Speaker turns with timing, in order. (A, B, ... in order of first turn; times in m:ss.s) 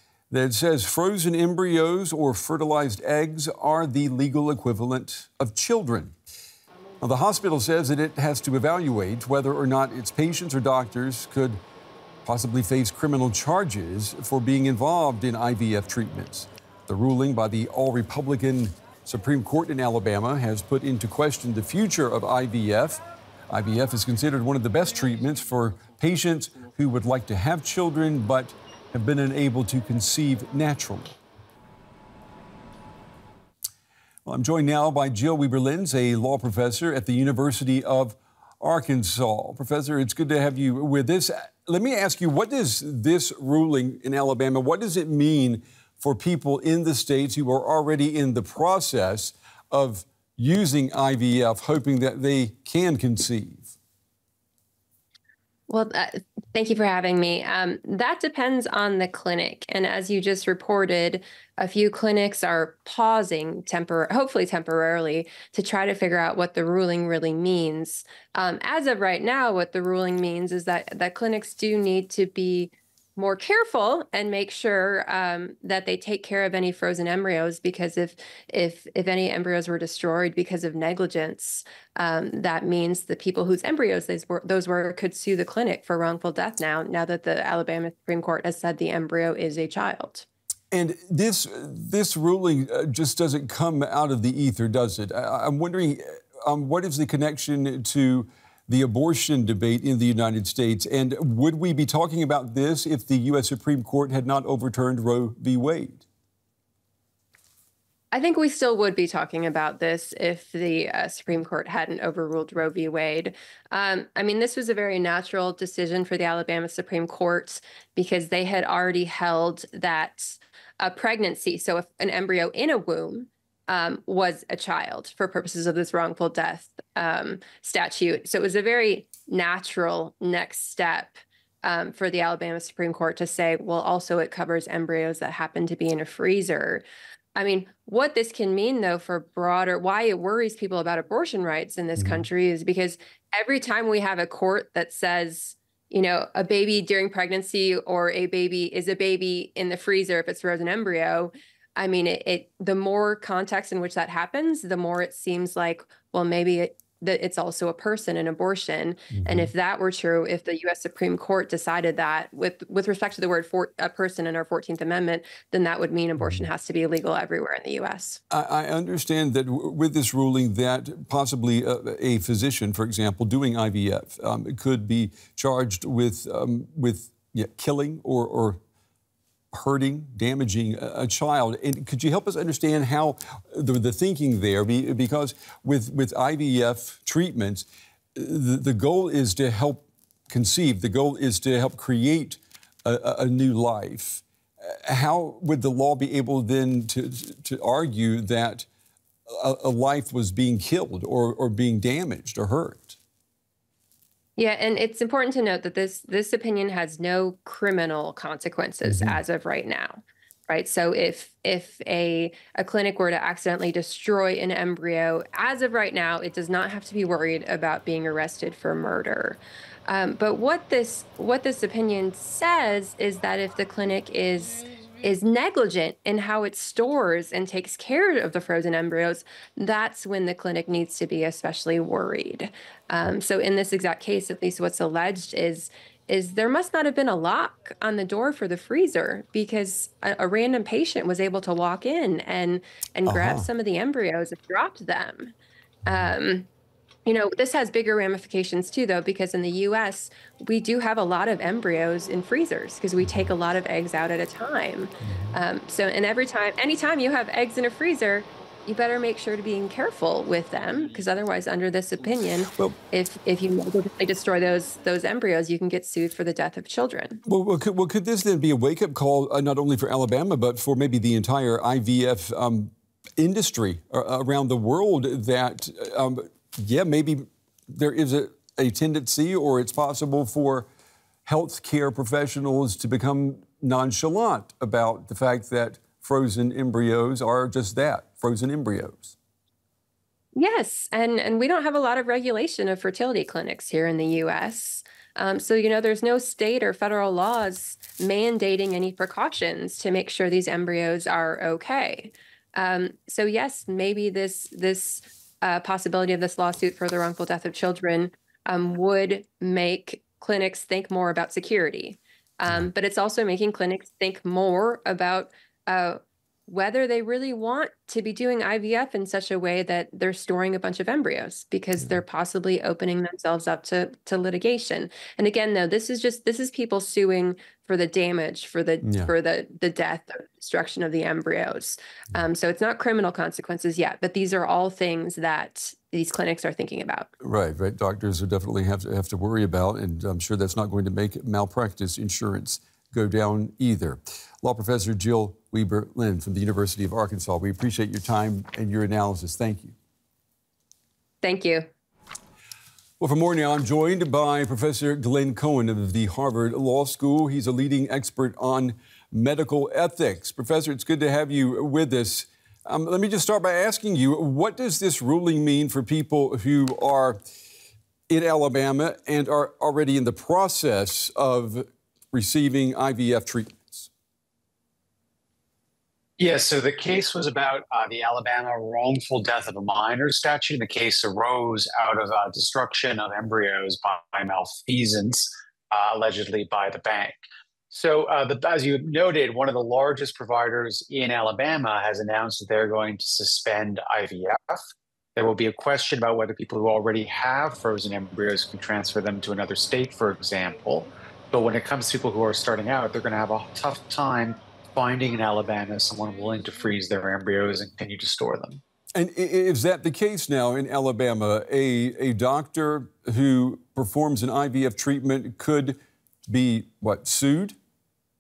0:00.3-0:06.1 A
0:07.0-0:11.6 A
0:12.2-0:31.2 A
0:34.3-0:53.7 A
0:55.7-1:30.2 B
1:30.7-1:46.0 A
1:48.1-2:16.8 B
2:17.4-2:48.2 B
2:22.0-2:22.2 A
2:39.1-2:39.5 A
2:46.2-2:46.4 A
2:48.3-2:58.6 A
2:59.5-3:18.7 A
3:19.3-3:23.0 A
3:24.4-4:05.3 B
3:28.8-3:29.2 A
4:03.1-4:03.4 A
4:05.9-4:06.5 B
4:05.9-4:06.1 A
4:07.1-4:27.2 B
4:13.0-4:13.3 A
4:15.0-4:15.3 A
4:27.2-4:40.7 A
4:41.2-4:49.1 A
4:50.4-5:37.1 B
5:28.8-5:29.1 A
5:37.2-5:49.8 A
5:51.2-5:51.7 B
5:53.0-6:07.2 A
6:08.1-6:13.9 A
6:16.2-6:27.2 C
6:27.7-6:34.6 C
6:35.2-6:48.6 C
6:48.9-6:55.8 A
6:56.3-6:57.6 A